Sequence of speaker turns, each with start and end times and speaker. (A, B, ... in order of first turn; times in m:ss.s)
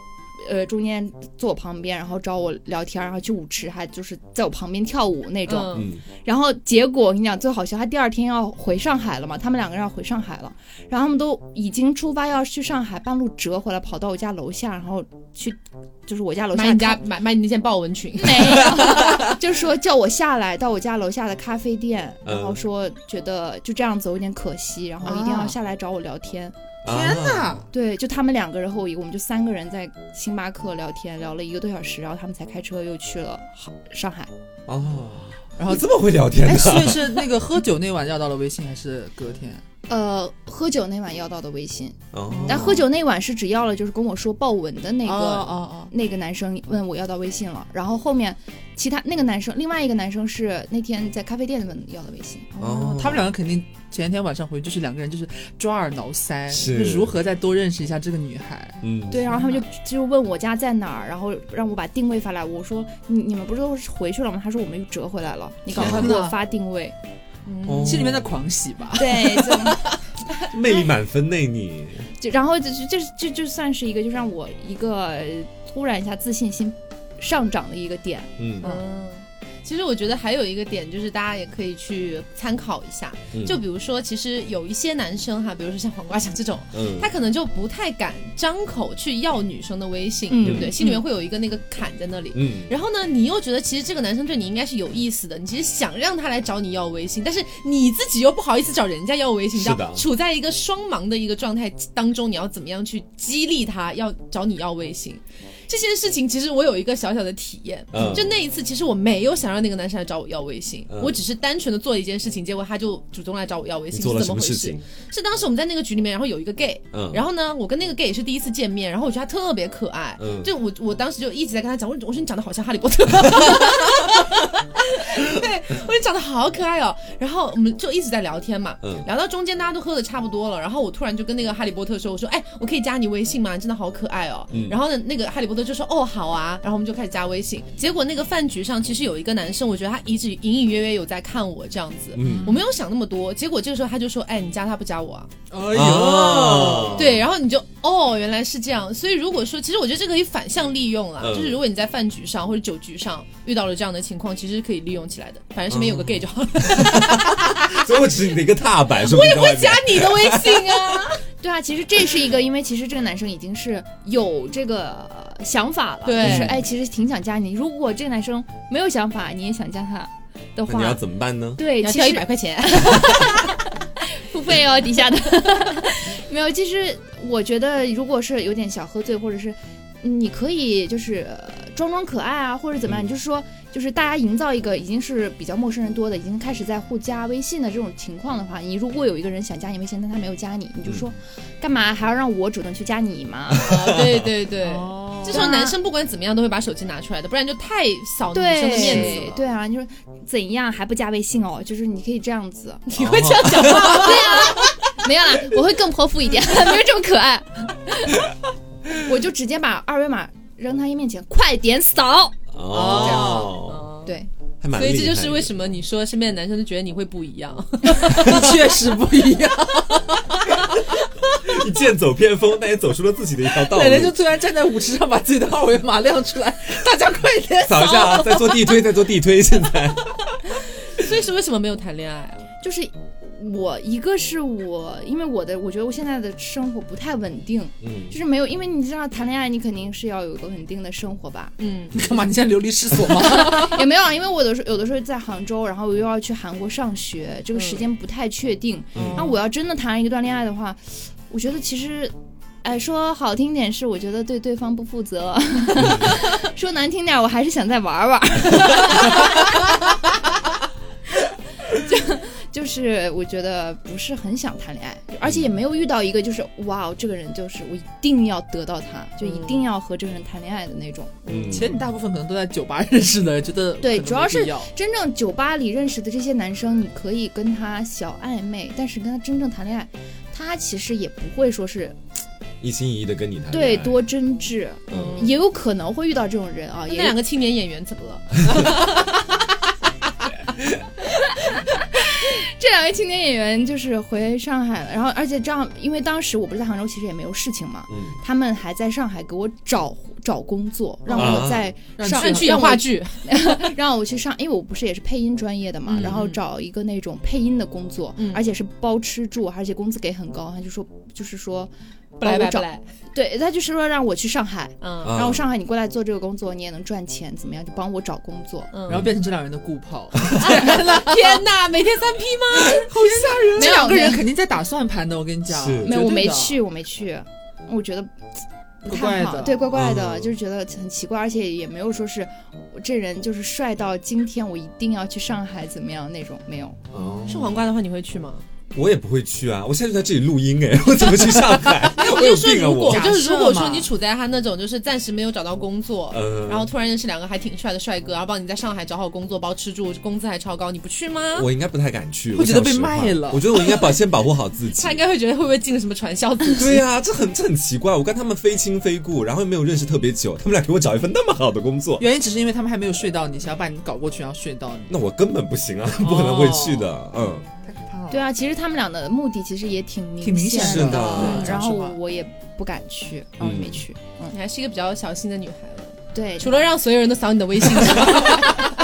0:00.4-0:17.0 A
0:05.5-0:05.9 B
0:05.7-0:06.0 C
0:16.5-0:19.0 B
0:18.2-0:26.6 A
0:18.7-0:19.3 C
0:22.2-0:22.6 C
0:25.0-0:25.6 D
0:26.8-0:27.6 C
0:26.9-0:27.7 D
0:27.7-0:34.3 A
0:34.7-0:37.3 C
0:35.6-0:39.6 D
0:39.9-0:53.0 A
0:42.1-0:42.8 C
0:42.3-0:42.8 D
0:45.0-0:45.9 D
0:52.6-0:53.3 C
0:52.9-0:59.6 D
0:56.5-0:57.2 C
0:58.8-0:59.3 C
0:59.1-1:07.0 A
1:05.7-1:06.4 D
1:05.8-1:06.2 C
1:07.5-1:08.1 B
1:07.6-1:08.3 C
1:07.8-1:10.0 D
1:08.9-1:09.9 A
1:10.5-1:12.1 C
1:12.2-1:18.8 A
1:18.4-1:18.7 C
1:18.6-2:25.3 B
1:23.3-1:23.6 C
1:26.7-1:27.1 C
1:30.3-1:30.8 A
1:30.4-1:30.7 C
1:32.3-1:32.7 C
1:39.5-1:40.0 C
1:47.9-1:48.3 C
1:50.9-1:51.2 C
1:53.9-1:54.8 C
1:56.9-1:57.2 C
2:00.2-2:00.5 C
2:08.8-2:09.1 C
2:14.5-2:14.8 C
2:22.1-2:22.6 C
2:22.2-2:22.5 D
2:25.5-2:27.1 D
2:25.7-2:27.2 C
2:26.9-2:37.9 B
2:31.2-2:31.6 C
2:35.7-2:41.0 C
2:39.0-2:41.2 B
2:41.4-2:51.0 A
2:46.0-2:46.6 B
2:50.7-2:51.6 C
2:51.6-3:13.8 A
2:51.8-2:53.3 B
3:02.8-3:03.1 C
3:13.5-3:14.2 C
3:13.6-3:19.4 B
3:14.6-3:15.5 D
3:15.3-3:15.8 A
3:18.3-3:28.3 A
3:18.7-3:19.3 C
3:22.9-3:24.6 B
3:23.0-3:24.1 C
3:28.9-3:32.4 A
3:32.5-3:33.9 C
3:32.7-3:33.5 D
3:33.0-3:34.2 B
3:34.6-3:35.5 C
3:34.7-3:38.4 B
3:37.9-3:40.6 D
3:41.4-3:44.2 C
3:43.6-3:48.5 D
3:47.6-3:50.4 C
3:50.9-3:52.4 B
3:52.6-4:01.6 A
3:57.8-3:58.2 C
4:01.6-4:02.0 B
4:01.9-4:03.9 D
4:03.1-4:19.7 A
4:07.5-4:07.8 B
4:09.0-4:09.3 C
4:09.0-4:09.3 D
4:15.8-4:16.2 C
4:21.7-4:31.4 A
4:25.2-4:25.5 C
4:29.2-4:29.6 B
4:31.3-4:31.8 C
4:31.5-4:34.7 D
4:33.8-4:42.0 A
4:42.6-4:44.0 C
4:43.5-4:47.2 A
4:44.9-4:45.3 C
4:44.9-4:45.4 B
4:46.9-4:49.1 B
4:51.0-5:18.7 A
4:57.9-4:58.2 C
5:01.1-5:02.8 D
5:01.2-5:01.7 C
5:02.1-5:03.3 B
5:05.9-5:06.4 B
5:08.2-5:08.4 B
5:12.2-5:12.8 B
5:14.8-5:15.2 B
5:15.0-5:15.5 C
5:18.7-5:19.0 B
5:18.9-5:21.4 D
5:18.9-5:19.2 C
5:20.3-5:24.2 B
5:22.6-5:26.6 D
5:23.6-5:24.3 A
5:25.5-5:26.0 C
5:25.8-5:28.1 A
5:28.8-5:36.8 A
5:28.9-5:29.7 D
5:29.7-5:30.4 C
5:36.9-5:37.6 C
5:37.3-5:38.4 B
5:38.7-5:43.1 C
5:41.9-5:51.5 B
5:42.8-5:43.9 D
5:46.1-5:46.7 C
5:51.4-5:55.0 C
5:52.3-5:53.6 D
5:54.8-5:56.8 B
5:56.6-6:02.0 C
6:02.0-6:05.0 D
6:04.9-6:07.5 C
6:06.0-6:06.9 D
6:07.6-6:08.3 D
6:08.1-6:14.4 A
6:10.2-6:12.0 D
6:10.6-6:11.6 C
6:13.4-6:13.9 C
6:14.3-6:18.7 B
6:16.1-6:16.7 A
6:18.1-6:18.5 A